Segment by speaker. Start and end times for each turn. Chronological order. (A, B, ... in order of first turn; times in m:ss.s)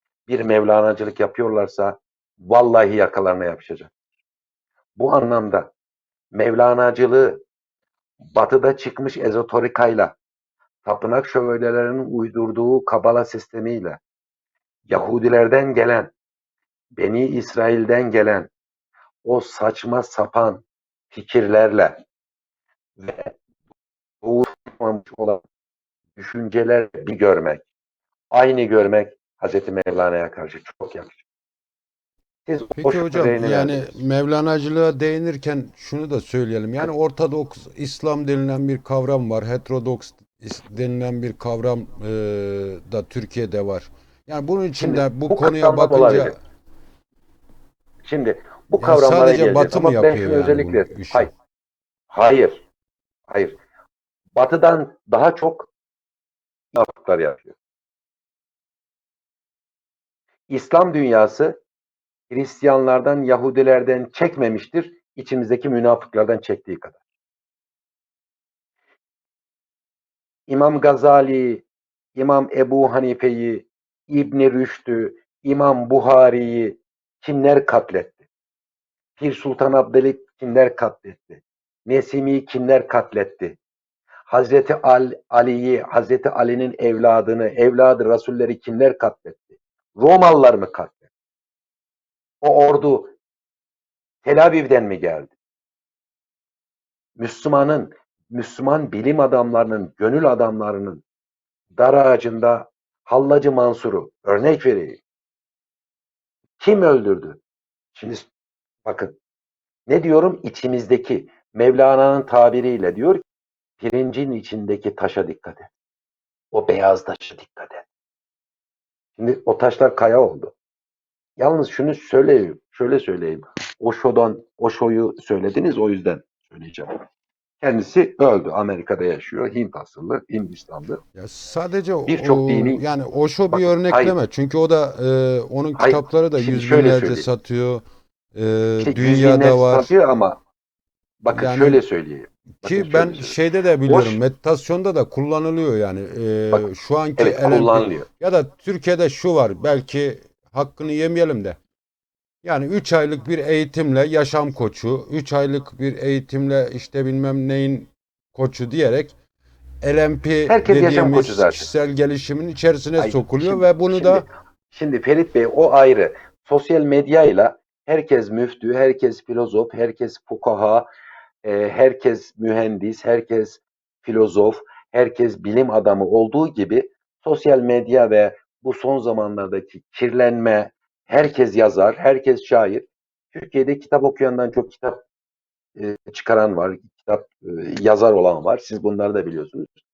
0:00.3-0:03.9 A
0:05.0-0:05.7 A
0:06.3-0:07.4 A
0:08.3-0:10.2 A
0:10.8-0:14.0 A
0:14.9-0:16.1 A
0:17.0-0:18.5 A
0:19.2-0:22.0 A
0:23.0-0:23.4 A
0:24.2-0:25.4 A
0:26.2-0:27.6 A
0:28.3-0:31.2 A
0:32.4-0:34.0 A
0:32.8-0:46.4 B
0:44.7-0:46.3 A
0:48.0-0:51.3 A
0:48.8-0:51.3 B
0:52.1-0:52.6 A
0:53.3-0:53.6 A
0:54.3-0:55.7 A
0:56.7-0:57.5 A
1:00.5-1:01.6 A
1:02.3-1:07.0 A
1:10.5-1:11.6 A
1:12.1-1:18.2 A
1:19.2-1:23.6 A
1:24.3-1:31.0 A
1:32.4-1:33.1 A
1:34.2-1:35.3 A
1:37.2-1:41.0 A
1:41.8-1:45.0 A
1:46.6-1:47.4 A
1:47.9-1:48.3 A
1:48.8-1:49.1 A
1:49.9-1:53.2 A
1:53.8-1:55.7 A
1:56.5-1:57.8 A
1:59.2-2:00.5 A
2:01.4-2:07.0 A
2:07.6-2:11.0 A
2:11.1-2:17.8 B
2:12.0-2:12.8 A
2:13.5-2:14.2 A
2:15.8-2:17.3 A
2:18.3-2:19.9 B
2:18.8-2:20.4 A
2:21.2-2:24.2 A
2:21.3-2:21.8 B
2:22.6-2:31.6 B
2:27.2-2:28.1 A
2:32.4-2:39.1 B
2:39.8-2:44.2 B
2:40.5-2:41.7 A
2:43.0-2:50.9 A
2:51.4-3:05.0 A
3:05.8-3:09.7 A